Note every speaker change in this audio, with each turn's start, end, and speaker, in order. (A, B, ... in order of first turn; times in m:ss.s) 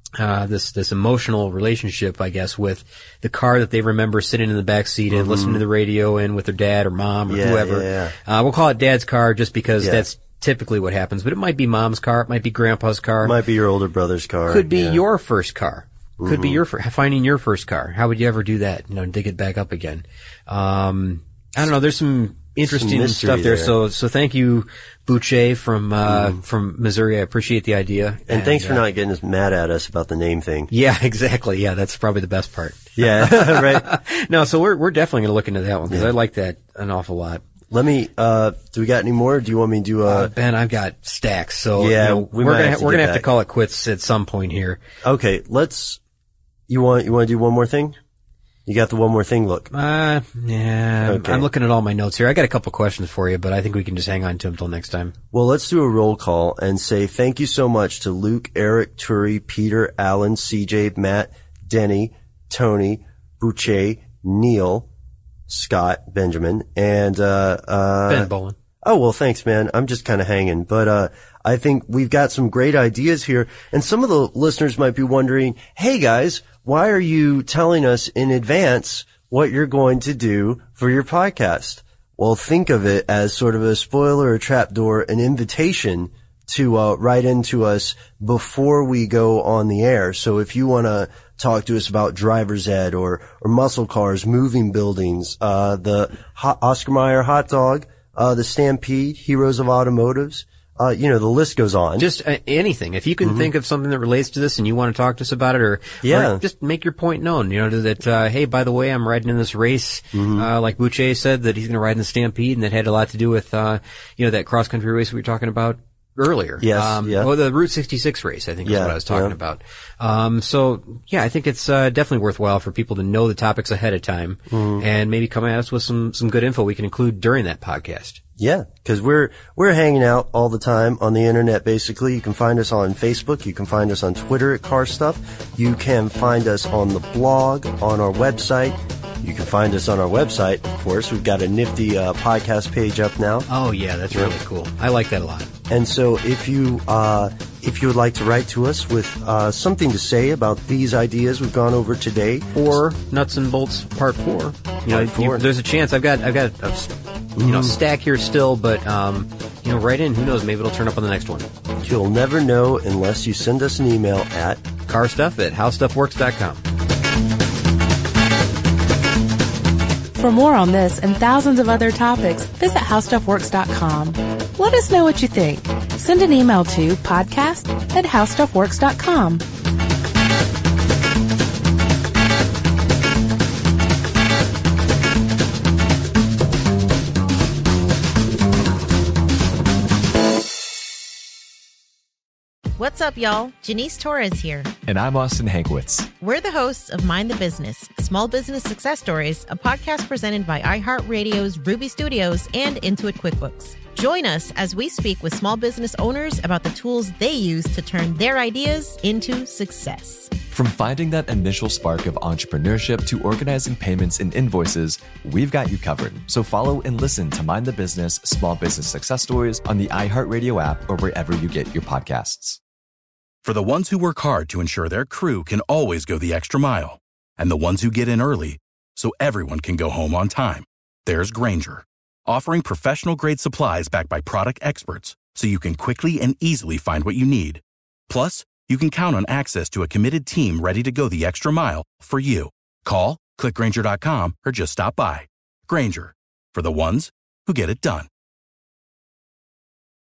0:00.2-0:13.4 A
0:05.1-0:05.6 B
0:07.3-0:08.1 B
0:13.2-0:15.0 B
0:14.5-0:28.8 A
0:16.2-0:16.6 B
0:22.6-0:23.7 B
0:26.0-0:26.4 B
0:28.3-0:30.7 B
0:30.7-0:37.4 A
0:33.0-0:33.9 B
0:37.7-0:40.3 B
0:40.0-0:44.8 A
0:41.8-0:43.3 B
0:45.0-0:46.0 B
0:46.7-0:48.0 B
0:48.6-0:49.7 B
0:49.7-0:55.1 A
0:51.0-0:51.5 B
0:55.3-1:04.9 B
1:05.5-1:08.3 B
1:08.1-1:08.6 A
1:08.8-1:42.0 B
1:42.0-2:08.2 A
1:43.2-1:43.5 B
1:46.0-1:46.4 B
1:50.1-1:50.5 B
1:56.6-1:57.3 B
1:58.6-1:59.4 B
2:04.5-2:04.8 B
2:08.4-2:23.5 B
2:23.5-2:25.5 A
2:25.7-2:32.7 B
2:32.5-2:41.5 A
2:34.8-2:35.4 B
2:37.4-2:37.8 B
2:41.8-2:44.6 B
2:44.9-2:46.6 A
2:50.1-2:59.4 C
3:12.8-3:14.7 D
3:14.8-3:16.1 E
3:16.2-3:30.3 D
3:30.5-3:42.6 E
3:43.4-4:08.1 F